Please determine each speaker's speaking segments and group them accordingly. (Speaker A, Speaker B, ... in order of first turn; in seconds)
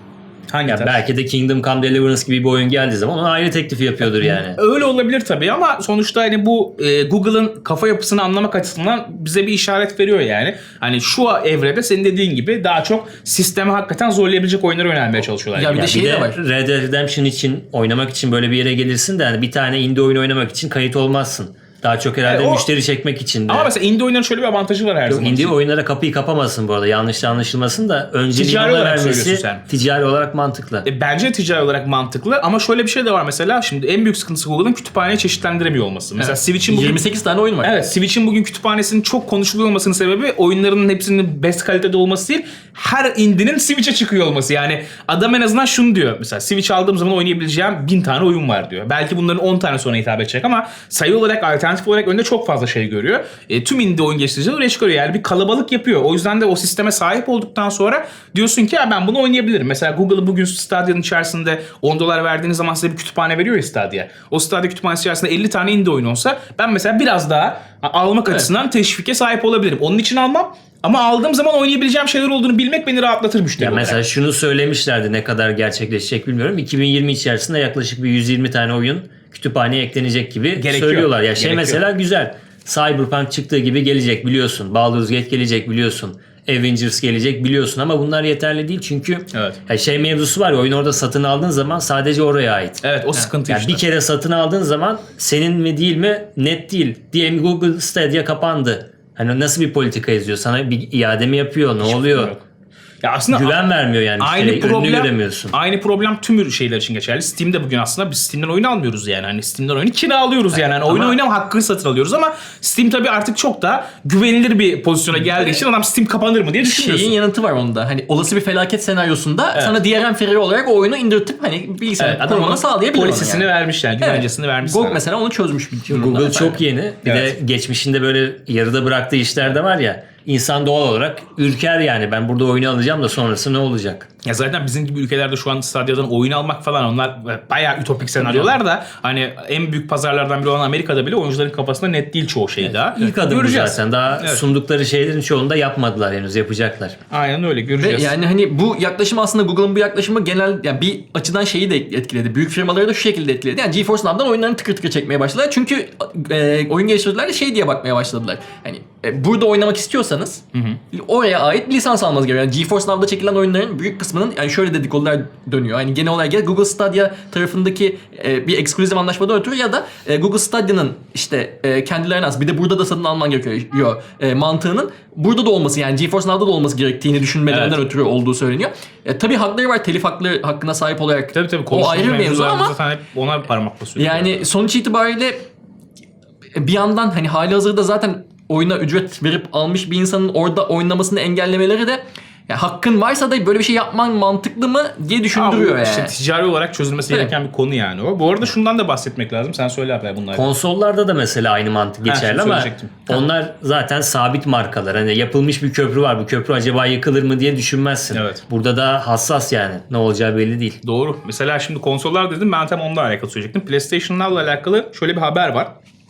Speaker A: 0.5-1.0, 4.2-16.0, 22.2-22.6, 23.5-25.5, 28.3-29.6, 30.8-37.0, 37.6-74.0, 80.5-81.8, 89.3-89.6, 92.8-93.8, 101.8-102.4, 103.0-103.6, 104.2-117.1, 122.0-125.0, 127.0-127.3, 134.2-144.4, 147.1-148.1, 160.5-160.8, 177.5-177.8, 181.3-184.5, 195.3-200.5, 202.0-203.0, 208.1-208.4, 210.8-215.7
Speaker B: 0.7-4.6, 15.7-23.7, 25.1-30.9, 73.6-92.8, 93.5-102.3, 103.3-105.5, 125.9-134.1, 142.9-147.0, 200.3-210.8
Speaker C: 15.5-16.4, 36.2-37.7, 110.8-111.2, 115.2-115.6, 116.6-123.5, 124.0-126.6, 138.1-138.5, 147.8-182.8, 184.0-185.4, 186.5-196.1, 197.1-197.3